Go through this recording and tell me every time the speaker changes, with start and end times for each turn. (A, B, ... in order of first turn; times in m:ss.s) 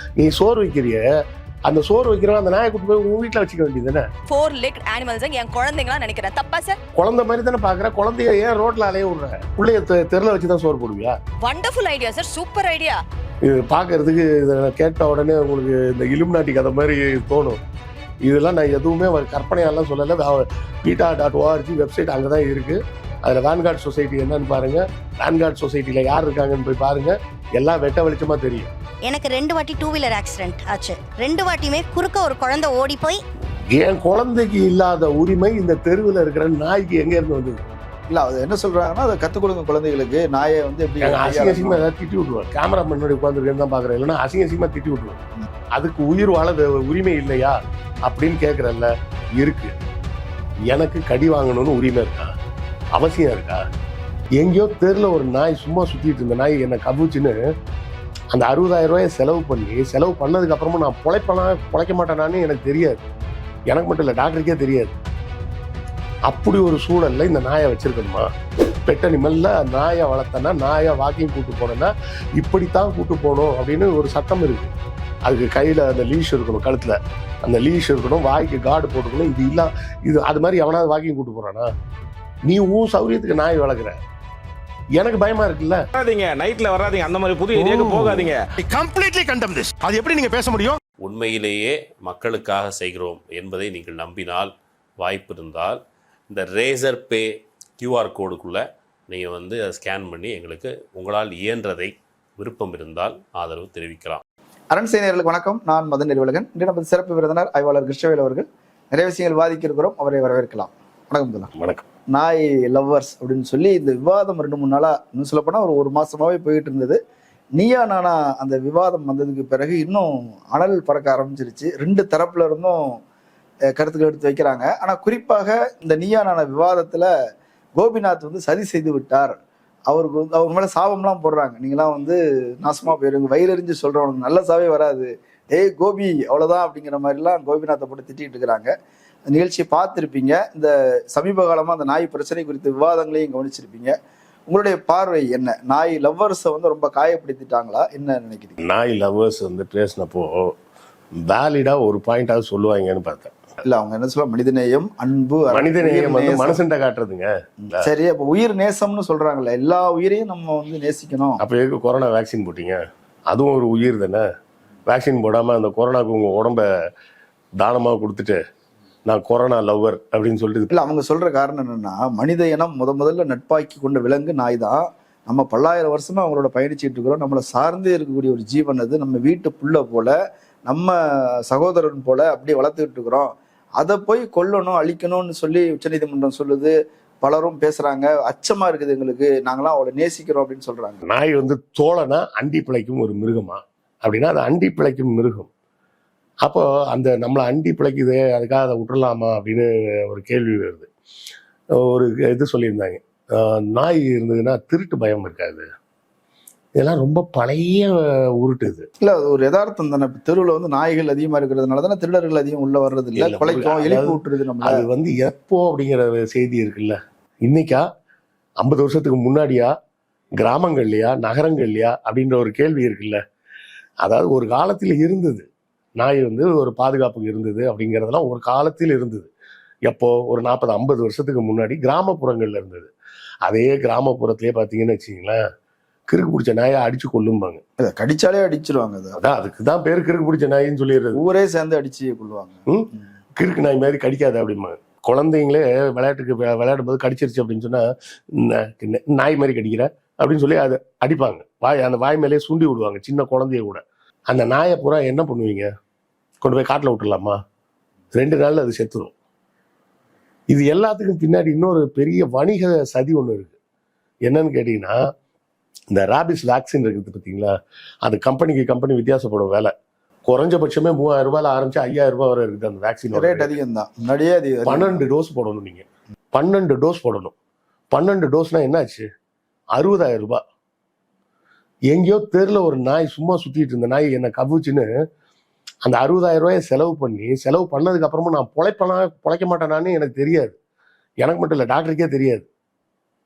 0:00.2-0:01.0 A
0:01.7-0:04.0 A
0:04.3-0:06.8 B
0:07.0-0:11.2 A
0:11.4-0:13.0 B
0:13.4-0:17.6 A
0:18.3-0:28.7 A
0:29.1-0:33.2 C
0:33.7-0:37.6 A
0:38.1-0:41.8 D
0:41.0-0:45.2 A
0:45.8-0:49.7 A
0:50.7-0:52.3 A
0:53.0-0:53.6 A
0:54.4-0:57.3 A
0:58.3-1:03.0 A
1:03.7-1:04.9 A
1:06.3-1:08.3 A
1:08.9-1:14.7 A
1:15.3-1:21.7 A
1:22.5-1:24.0 A
1:25.0-1:25.8 A
1:26.0-1:28.5 E
1:27.6-1:30.8 F
1:31.0-1:44.2 G
1:44.7-1:51.5 D
1:51.6-1:51.8 A
1:52.1-1:57.0 D
1:57.6-2:03.0 D
2:03.7-2:07.1 D
2:07.8-2:18.7 D
2:19.3-2:24.0 D
2:24.5-2:28.6 D
2:28.6-2:30.5 A
2:31.2-2:33.4 A
2:33.6-2:36.6 D
2:35.5-2:37.3 A
2:37.6-2:41.4 D
2:41.4-2:44.2 A
2:44.9-2:46.6 A
2:47.6-2:48.4 A
2:49.1-2:50.7 A
2:50.7-3:00.2 D
3:00.7-3:01.0 D
3:01.5-3:11.0 D
3:11.1-3:15.5 A
3:16.4-3:20.9 A
3:21.8-3:25.7 A
3:26.8-3:28.9 A
3:29.0-3:34.9 D
3:33.2-3:37.9 A
3:38.6-3:39.7 A
3:40.4-3:43.2 A
3:44.0-3:45.5 A
3:46.0-3:49.3 A
3:49.9-3:52.9 A
3:53.5-3:55.4 A
3:56.1-3:57.6 A
3:57.8-3:59.2 D
3:59.2-4:01.2 A
4:01.1-4:03.0 D
4:02.7-4:07.8 A
4:08.4-4:15.7 A
4:16.4-4:17.4 A
4:18.2-4:19.1 A
4:20.5-4:23.5 A
4:24.3-4:25.0 A
4:25.9-4:27.5 A
4:28.1-4:29.7 A
4:30.3-4:33.5 A
4:33.1-4:35.0 D
4:34.7-4:37.3 A
4:37.9-4:39.1 A
4:39.8-4:40.4 A
4:41.9-4:44.9 A
4:45.8-4:50.6 A
4:51.2-4:52.5 A